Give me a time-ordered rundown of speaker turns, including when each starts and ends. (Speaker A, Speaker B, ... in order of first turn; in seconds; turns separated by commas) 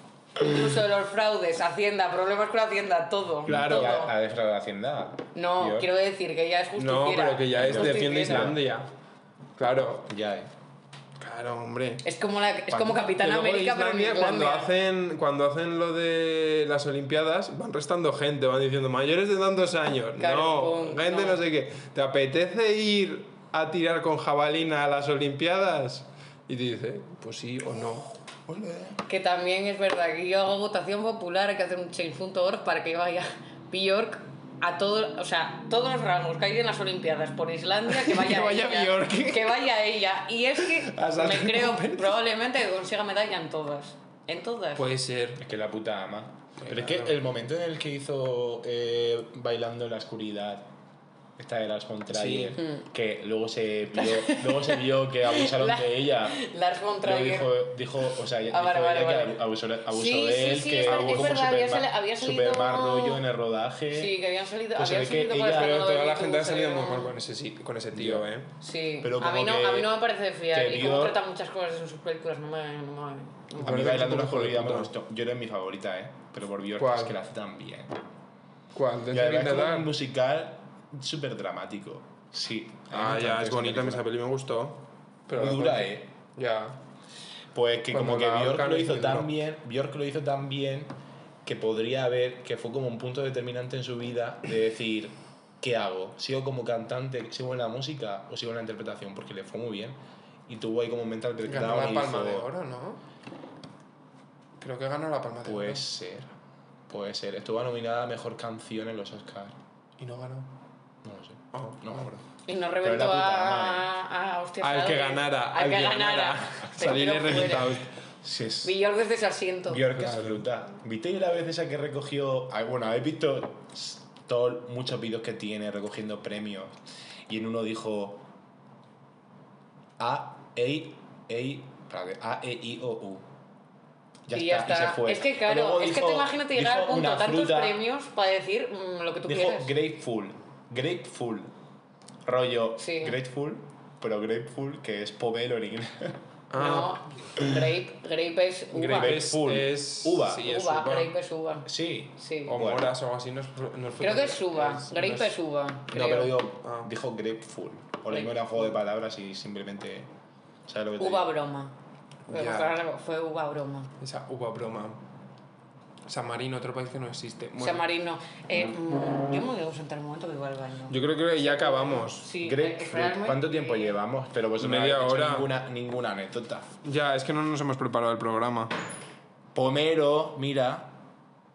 Speaker A: 0.4-4.1, Speaker B: 3.5-4.0, Speaker C: 3.5-5.9, Speaker A: 5.3-8.5, Speaker B: 6.8-8.9, Speaker C: 7.6-8.6, Speaker B: 9.6-10.1, Speaker C: 10.1-10.5, Speaker B: 11.2-12.0, Speaker A: 12.0-14.7, Speaker B: 12.7-29.0, Speaker A: 20.2-21.4, Speaker A: 29.1-44.9, Speaker B: 37.9-39.7, Speaker B: 40.8-42.1, Speaker B: 44.8-45.4, Speaker C: 45.4-50.7, Speaker B: 46.6-47.2, Speaker C: 51.4-56.4, Speaker B: 52.1-52.6, Speaker A: 52.6-52.8, Speaker A: 54.0-57.6, Speaker C: 57.0-64.1, Speaker A: 58.5-63.2, Speaker B: 60.9-61.4, Speaker A: 63.9-67.1, Speaker C: 64.8-65.8, Speaker B: 65.5-68.5, Speaker C: 67.9-68.3, Speaker A: 68.6-74.0, Speaker C: 69.0-70.0, Speaker C: 70.5-71.2, Speaker B: 73.6-74.9, Speaker C: 73.6-78.0, Speaker B: 76.8-77.2, Speaker B: 78.7-79.9, Speaker C: 79.1-84.1, Speaker B: 82.9-86.8, Speaker C: 85.3-86.1, Speaker C: 87.5-90.9, Speaker B: 87.9-89.3, Speaker C: 91.5-102.5, Speaker B: 101.5-103.0, Speaker B: 104.6-105.8, Speaker C: 105.5-106.3, Speaker C: 106.9-109.6, Speaker B: 110.0-110.5, Speaker C: 111.0-112.1, Speaker B: 111.5-112.2, Speaker A: 112.5-117.8, Speaker C: 112.8-113.9, Speaker B: 114.6-117.9, Speaker C: 118.2-118.8, Speaker A: 118.6-119.8, Speaker C: 119.7-126.8, Speaker B: 119.9-120.4, Speaker C: 127.3-128.2, Speaker C: 130.0-133.2, Speaker C: 134.3-137.8, Speaker A: 134.3-139.7, Speaker C: 139.3-141.5, Speaker C: 142.2-146.2, Speaker A: 142.8-143.2, Speaker B: 146.5-147.1, Speaker A: 146.6-149.2, Speaker B: 148.7-151.2, Speaker C: 148.9-150.5, Speaker A: 150.4-152.6, Speaker C: 151.7-152.9, Speaker B: 152.5-155.3, Speaker A: 154.0-156.4, Speaker C: 155.9-160.1, Speaker B: 156.6-156.9, Speaker A: 158.1-158.3, Speaker C: 160.7-161.3, Speaker A: 161.0-161.8, Speaker B: 162.3-162.8, Speaker A: 162.3-163.9, Speaker B: 164.0-165.0, Speaker B: 166.1-167.8, Speaker A: 167.6-174.0, Speaker B: 170.9-172.3, Speaker C: 172.4-176.7, Speaker B: 174.6-175.5, Speaker B: 176.8-178.7, Speaker C: 179.6-180.9